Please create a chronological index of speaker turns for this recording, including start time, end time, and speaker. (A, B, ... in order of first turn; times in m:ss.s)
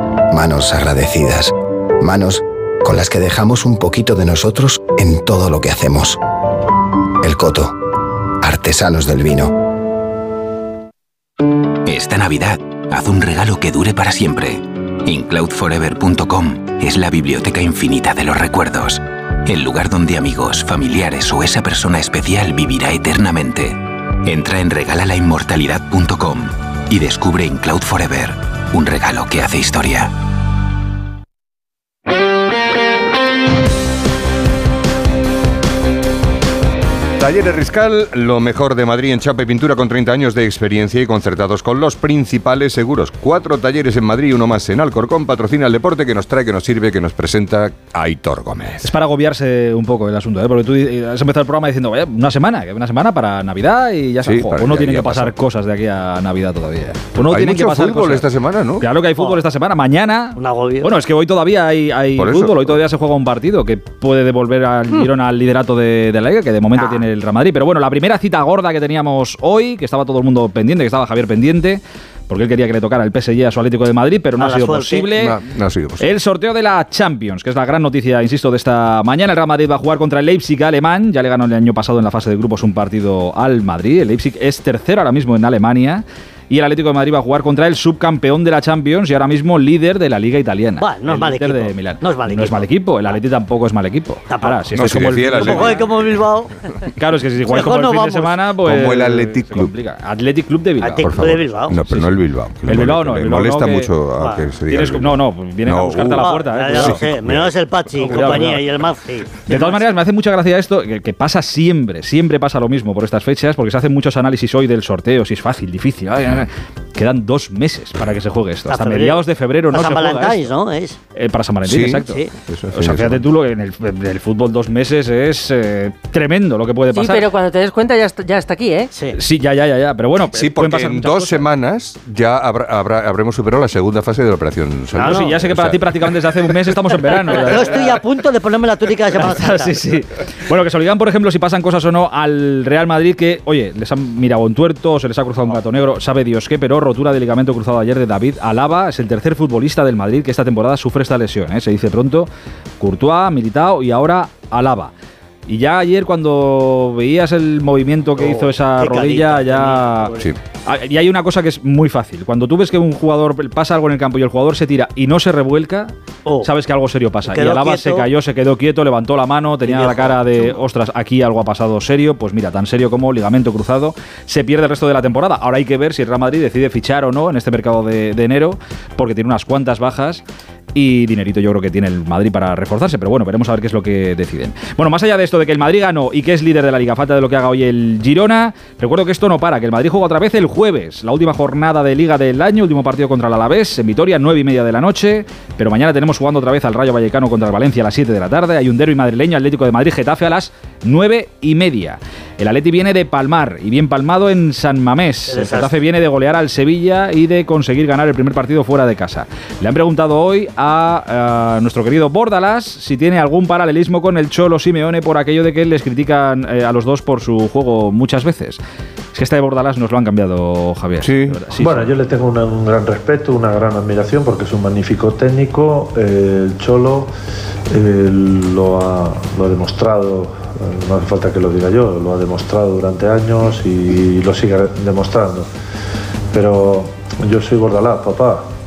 0:00.3-0:06.2 A
0:07.2-0:07.8 A
0:08.4-0:09.5 A
0:11.8-0:30.1 B
0:37.2-0:48.9 C
0:48.8-1:15.4 D
0:54.2-0:55.3 C
0:57.3-0:58.9 C
1:00.4-1:01.0 E
1:02.2-1:02.8 C
1:06.7-1:07.0 E
1:14.4-1:15.1 E
1:15.2-1:16.1 C
1:16.0-1:35.8 D
1:30.8-1:32.7 E
1:34.3-1:34.7 E
1:34.7-1:36.1 C
1:35.4-1:36.6 E
1:37.0-1:41.3 D
1:37.5-1:38.4 E
1:38.6-1:39.7 C
1:40.8-1:41.8 E
1:41.0-1:48.5 C
1:41.9-1:43.9 D
1:44.2-1:44.5 E
1:44.7-1:47.0 D
1:46.2-1:49.8 E
1:48.0-1:48.6 D
1:49.5-2:00.5 D
1:58.7-2:01.0 E
2:01.2-2:02.2 D
2:01.6-2:03.2 C
2:02.0-2:02.3 E
2:02.7-2:07.3 D
2:06.9-2:08.9 F
2:09.1-2:11.5 D
2:10.3-2:16.1 C
2:14.9-2:15.4 E
2:15.0-2:18.0 D
2:17.4-2:19.7 E
2:19.2-2:32.3 D
2:32.8-2:34.9 D
2:35.5-2:40.1 D
2:38.2-2:40.3 E
2:40.6-3:00.2 D
2:47.2-2:48.1 E
2:49.6-2:50.6 E
3:00.7-3:38.6 D
3:25.3-3:25.7 E
3:39.1-3:41.9 D
3:41.0-3:41.5 C
3:41.6-3:47.1 G
3:47.7-3:55.5 G
3:56.3-3:58.4 G